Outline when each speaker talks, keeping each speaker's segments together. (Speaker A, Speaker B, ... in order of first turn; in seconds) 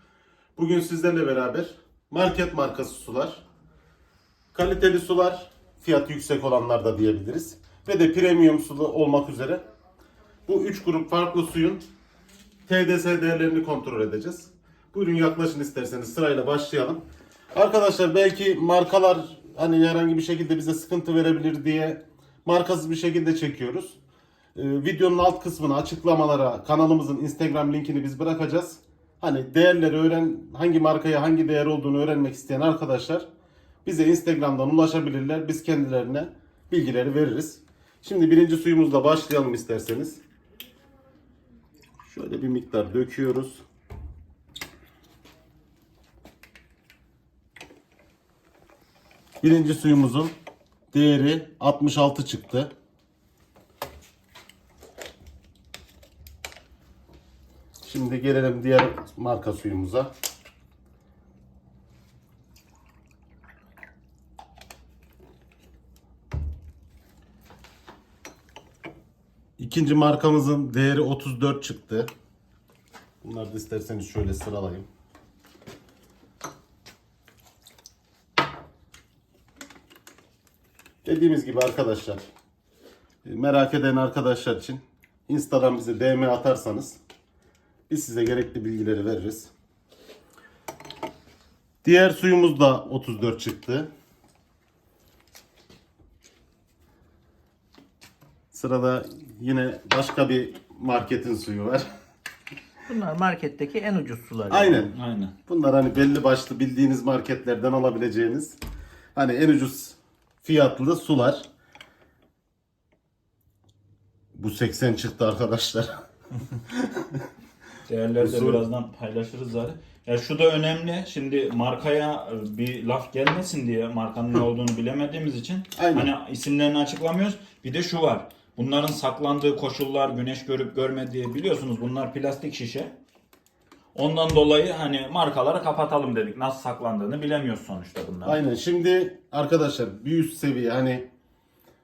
Speaker A: 0.6-3.4, 4.5-9.6, 10.5-11.8, 12.7-17.0, 17.5-24.0, 24.6-33.2, 33.8-40.2, 42.0-43.6, 49.4-50.3, 50.9-52.7, 57.8-60.1, 69.6-72.1, 73.2-74.8, 81.0-82.2, 83.2-87.0, 87.9-89.5, 91.8-93.9, 98.5-101.9, 104.5-104.9, 105.5-108.5, 109.1-111.4, 114.3-116.0, 118.2-118.6, 125.8-126.1, 138.2-141.1
Speaker B: 102.9-104.8
Speaker C: 104.9-105.3, 117.9-132.9, 133.9-138.4